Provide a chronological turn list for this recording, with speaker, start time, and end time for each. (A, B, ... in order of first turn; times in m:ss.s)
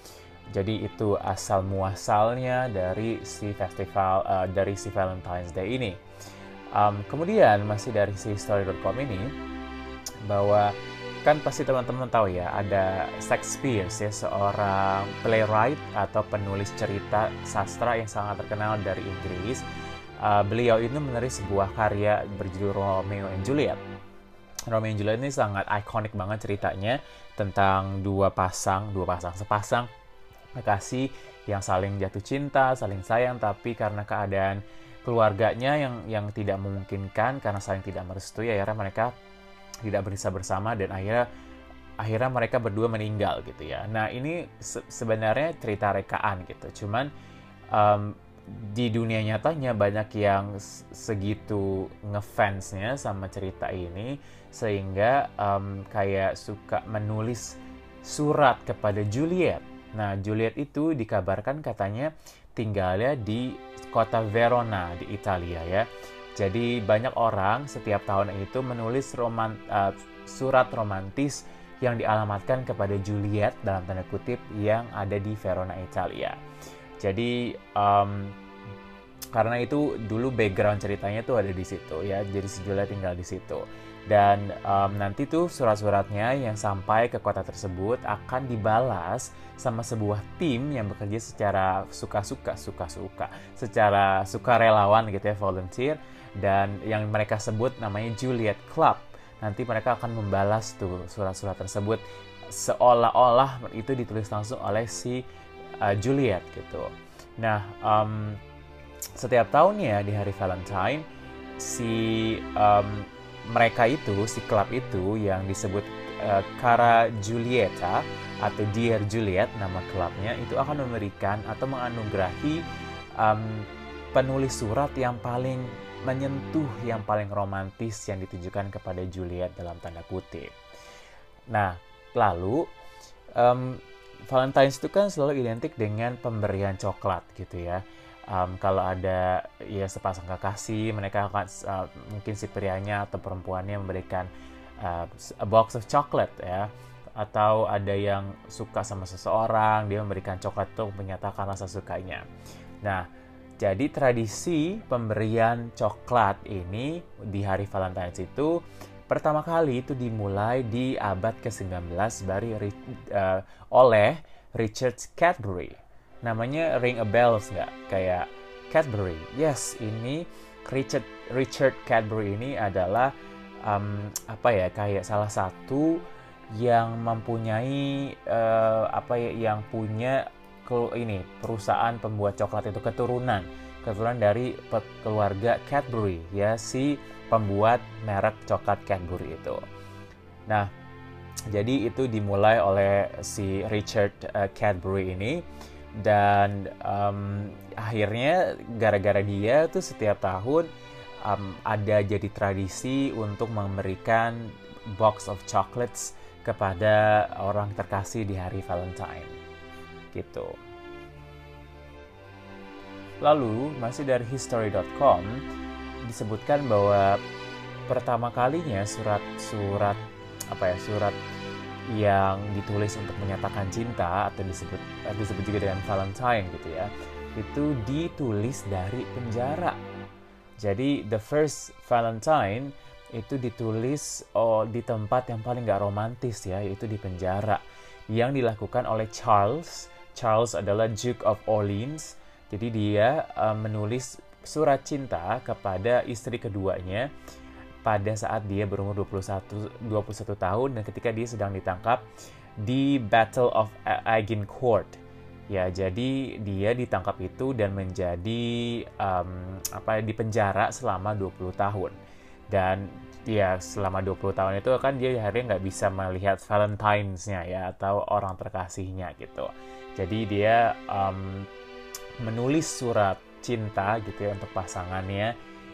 0:00.5-0:06.0 A
0:06.7-0:09.3 A
0:10.3-0:10.7 A
0:11.2-0:19.6 A
0:20.2-0:23.8 A
0:24.7-0:29.9 A
0:30.6-0:39.1 A
0:39.8-0:41.3 A
0:42.0-0:47.1 A
0:47.7-1:05.9 A
1:06.4-1:16.4 A
1:17.0-1:18.4 A
1:19.3-1:45.2 A
1:45.8-1:48.4 A
1:49.2-1:51.0 A
1:51.6-2:02.6 A
2:03.2-2:10.6 A
2:11.5-2:12.7 A
2:13.4-2:32.3 A
2:33.6-2:53.1 A
2:53.6-3:09.6 A
3:11.5-3:15.4 A
3:16.0-3:20.7 A
3:21.2-3:29.4 A
3:30.1-3:30.6 A
3:33.2-3:35.4 A
3:36.0-3:37.2 A
3:37.9-3:41.2 A
3:41.9-3:49.8 A
3:50.6-4:07.1 A
4:07.8-4:12.0 A
4:12.6-4:15.0 A
4:15.5-4:22.0 A
4:22.5-4:31.5 A
4:32.2-4:35.3 A